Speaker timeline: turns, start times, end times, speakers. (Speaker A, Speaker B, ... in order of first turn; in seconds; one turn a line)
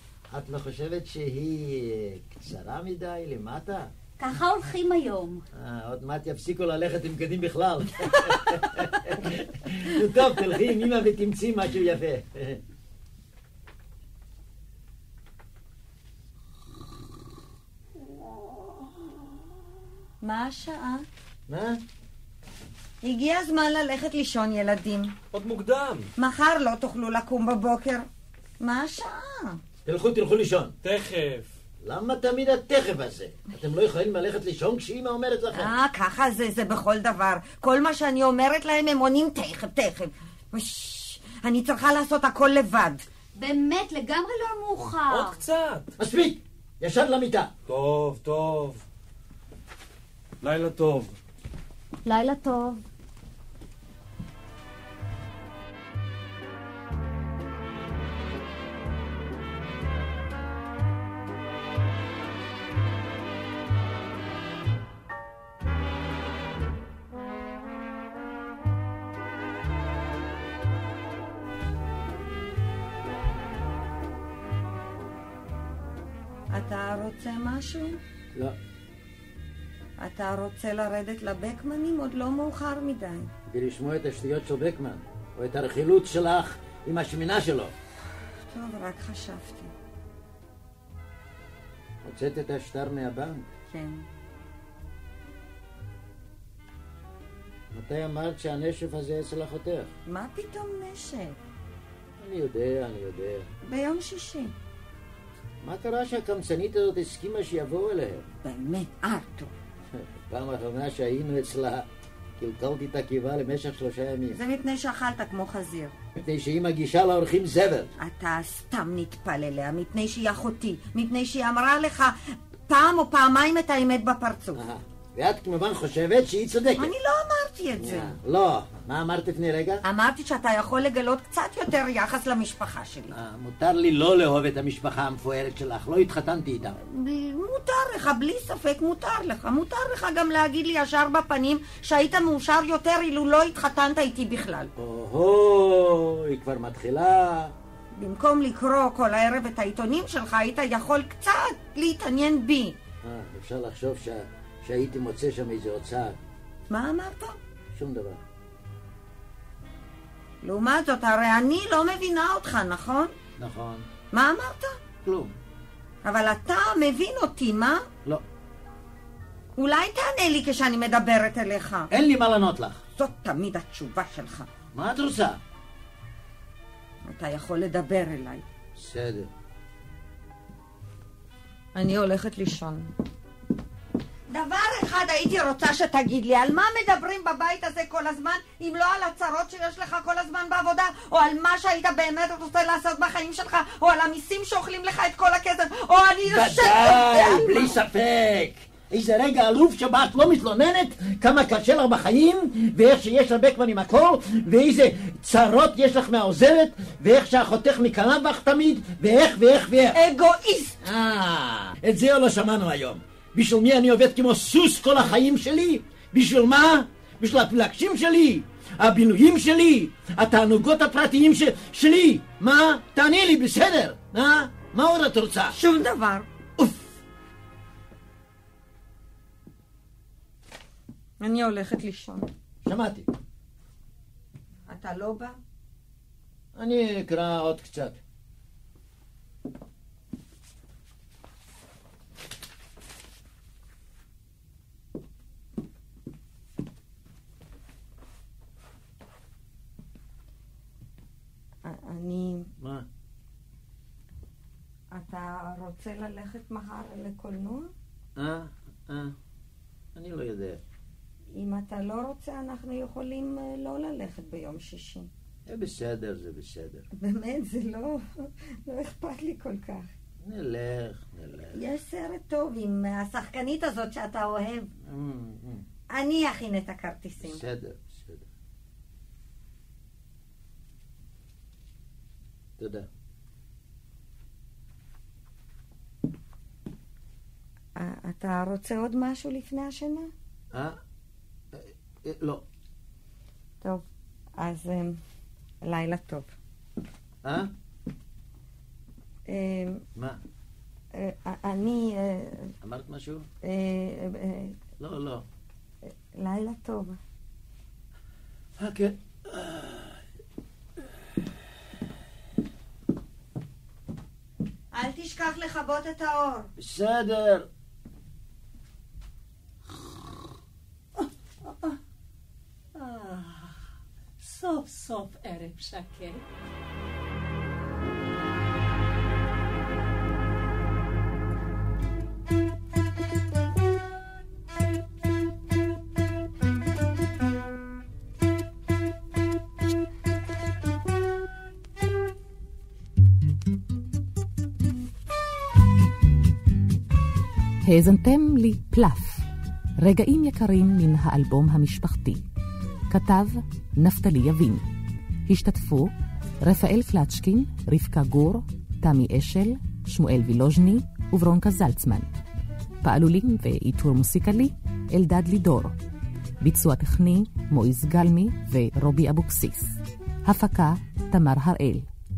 Speaker A: 0.3-3.9
Speaker B: 4.2-5.4
Speaker A: 5.5-12.6
Speaker C: 20.2-21.1
Speaker A: 21.5-21.8
Speaker C: 23.0-25.1
Speaker D: 25.3-26.1
Speaker C: 26.2-28.1
Speaker C: 28.6-29.6
Speaker A: 29.9-30.7
Speaker D: 30.8-31.5
Speaker A: 31.8-35.7
Speaker C: 35.5-43.1
Speaker B: 43.4-45.4
Speaker D: 45.1-45.9
Speaker A: 46.0-47.5
Speaker D: 47.7-48.8
Speaker D: 50.4-51.2
Speaker B: 52.0-52.8
Speaker C: 76.5-78.0
Speaker C: 80.0-83.3
Speaker A: 83.5-87.7
Speaker C: 88.5-89.7
Speaker A: 92.0-93.5
Speaker C: 93.7-94.1
Speaker A: 97.7-99.9
Speaker C: 100.1-101.4
Speaker A: 102.2-103.5
Speaker C: 103.6-104.5
Speaker A: 105.6-108.3
Speaker C: 108.4-109.5
Speaker A: 109.9-114.4
Speaker C: 114.3-115.9
Speaker A: 116.2-117.9
Speaker C: 118.0-124.6
Speaker A: 124.5-126.9
Speaker C: 126.8-128.2
Speaker A: 127.8-129.8
Speaker C: 129.8-133.1
Speaker A: 133.1-136.8
Speaker C: 136.8-144.7
Speaker A: 144.8-147.5
Speaker C: 147.9-152.8
Speaker A: 153.0-156.2
Speaker C: 156.7-157.4
Speaker A: 157.8-158.2
Speaker C: 160.4-163.1
Speaker A: 163.4-163.9
Speaker C: 164.1-164.8
Speaker A: 165.0-165.3
Speaker C: 166.0-167.9
Speaker C: 169.6-171.9
Speaker A: 171.9-172.8
Speaker C: 173.0-174.5
Speaker A: 174.7-175.4
Speaker C: 177.1-178.4
Speaker A: 178.8-179.3
Speaker C: 181.8-182.9
Speaker C: 184.3-197.8
Speaker A: 196.3-210.0
Speaker C: 209.9-210.8
Speaker A: 210.8-225.6
Speaker C: 225.6-226.3
Speaker C: 231.2-232.3
Speaker A: 232.7-233.1
Speaker C: 234.7-235.4
Speaker A: 236.6-238.0
Speaker C: 251.6-252.5
Speaker A: 252.6-252.9
Speaker C: 254.9-257.7
Speaker A: 258.2-259.1
Speaker A: 259.9-260.6
Speaker C: 261.3-265.1
Speaker A: 265.5-266.9
Speaker C: 266.9-269.9
Speaker A: 270.2-271.6
Speaker C: 271.5-274.7
Speaker A: 274.9-275.6
Speaker C: 275.9-277.4
Speaker A: 277.2-278.3
Speaker A: 282.6-282.9
Speaker C: 287.8-290.1
Speaker A: 290.5-290.8
Speaker A: 291.5-292.4
Speaker C: 293.6-295.0
Speaker C: 295.6-296.3
Speaker A: 297.2-297.5
Speaker C: 299.3-299.8
Speaker A: 300.0-300.2
Speaker C: 300.9-302.5
Speaker A: 302.6-303.3
Speaker C: 303.4-304.6
Speaker A: 304.8-305.2
Speaker C: 305.9-307.0
Speaker A: 308.6-310.0
Speaker C: 314.7-316.5
Speaker A: 316.6-317.5
Speaker E: 322.8-323.6
Speaker E: 324.2-326.2
Speaker F: 347.6-349.3
Speaker F: 349.8-352.2
Speaker F: 352.9-354.7
Speaker F: 355.3-362.1
Speaker F: 362.8-365.8
Speaker F: 366.4-371.9